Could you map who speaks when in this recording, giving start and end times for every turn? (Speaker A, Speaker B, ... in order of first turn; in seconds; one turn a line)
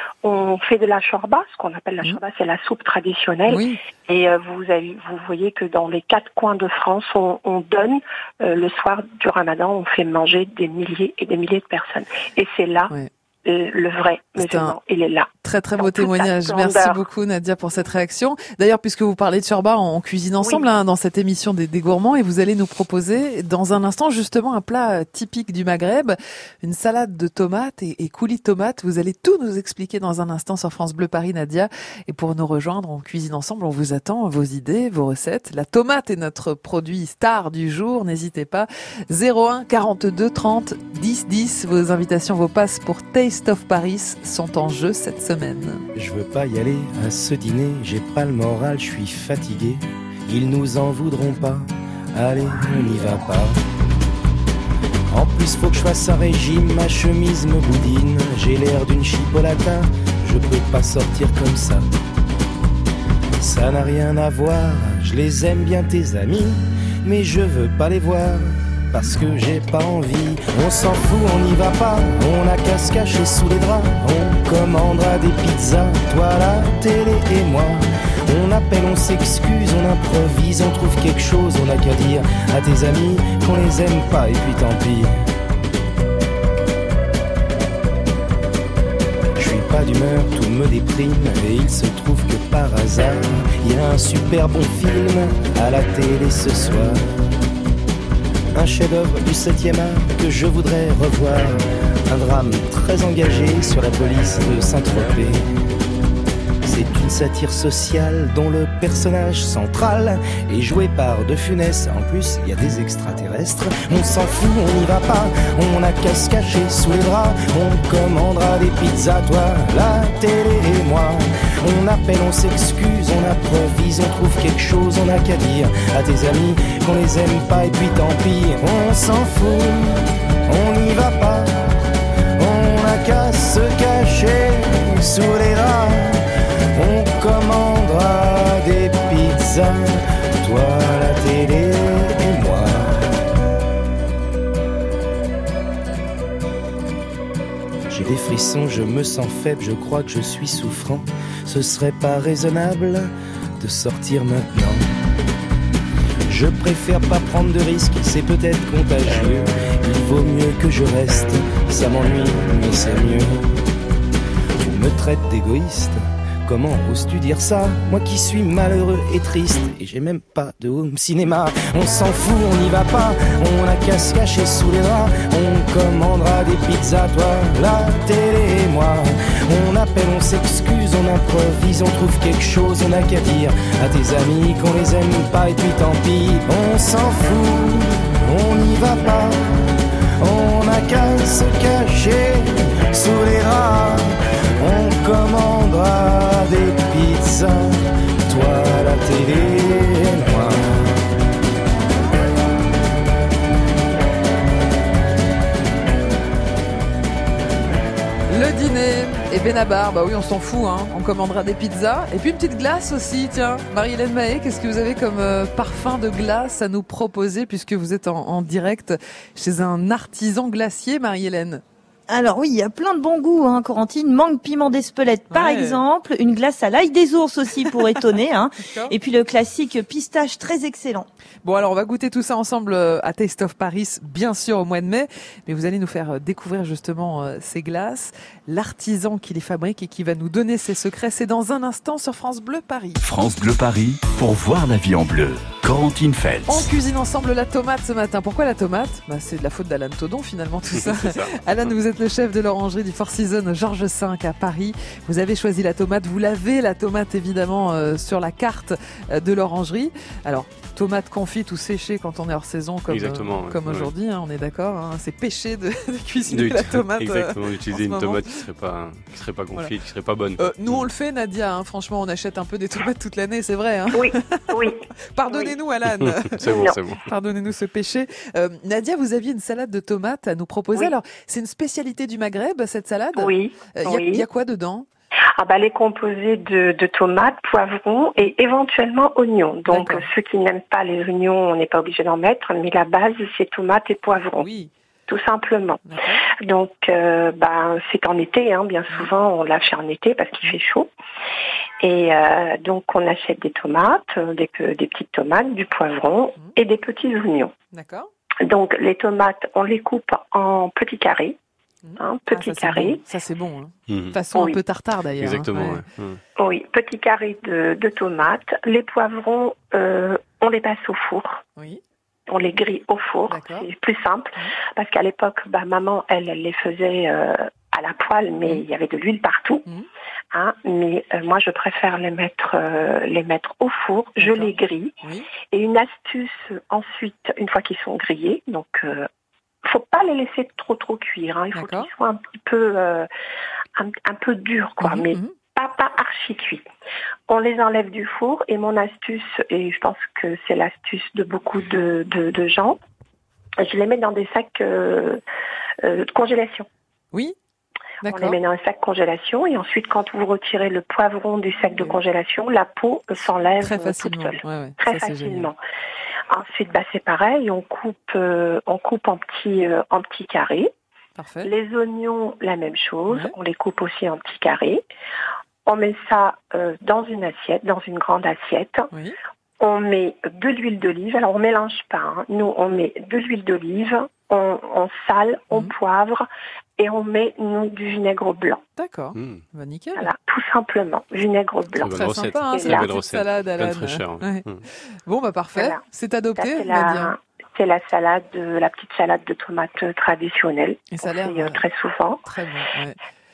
Speaker A: 0.2-12.9
Speaker B: 3.5-3.8
Speaker A: 13.4-17.1
Speaker B: 14.4-14.8
Speaker B: 15.4-45.8
Speaker A: 20.4-20.7
Speaker C: 45.9-53.6
Speaker C: 55.1-61.9
Speaker C: 63.4-85.1
Speaker C: 89.4-97.1
Speaker C: 98.5-105.4
Speaker C: 106.6-131.6
Speaker C: 132.4-136.2
Speaker C: 136.8-142.9
Speaker C: 147.9-154.9
Speaker C: 156.3-163.6
Speaker C: 164.6-189.5
Speaker C: 190.2-200.6
Speaker B: 208.3-221.6
Speaker D: 222.1-231.1
Speaker B: 225.3-225.8
Speaker B: 228.6-228.9
Speaker B: 231.4-243.0
Speaker E: 243.0-246.7
Speaker B: 246.5-268.2
Speaker F: 250.8-251.4
Speaker F: 262.9-263.9
Speaker F: 266.3-270.9
Speaker B: 270.4-284.9
Speaker A: 273.9-275.6
Speaker F: 275.9-277.1
Speaker A: 276.5-276.8
Speaker A: 283.1-284.2
Speaker A: 285.4-294.5
Speaker B: 289.7-290.1
Speaker B: 294.4-294.7
Speaker A: 295.1-295.8
Speaker B: 295.9-296.2
Speaker A: 296.4-300.9
Speaker A: 301.8-307.5
Speaker B: 307.7-308.1
Speaker A: 308.4-311.4
Speaker B: 311.8-315.9
Speaker A: 312.0-313.0
Speaker F: 313.9-314.2
Speaker A: 314.3-314.6
Speaker F: 315.2-316.2
Speaker A: 316.4-321.4
Speaker A: 322.3-329.6
Speaker B: 323.3-323.7
Speaker A: 330.3-334.9
Speaker B: 334.2-335.3
Speaker A: 335.5-339.1
Speaker A: 339.6-343.1
Speaker B: 341.5-341.9
Speaker A: 343.8-346.6
Speaker B: 344.8-345.4
Speaker A: 347.3-352.8
Speaker A: 353.6-355.2
Speaker A: 355.8-356.7
Speaker B: 358.0-358.4
Speaker A: 358.1-365.6
Speaker B: 363.6-365.5
Speaker A: 366.3-370.7
Speaker B: 371.1-371.5
Speaker A: 371.4-374.8
Speaker B: 373.1-373.4
Speaker A: 375.6-378.9
Speaker A: 379.6-388.6
Speaker B: 388.8-390.1
Speaker F: 389.1-389.4
Speaker A: 389.9-392.9
Speaker F: 391.8-394.6
Speaker B: 391.8-394.4
Speaker B: 395.1-397.1
Speaker A: 395.6-395.8
Speaker A: 396.4-402.2
Speaker B: 400.9-401.6
Speaker B: 402.2-403.0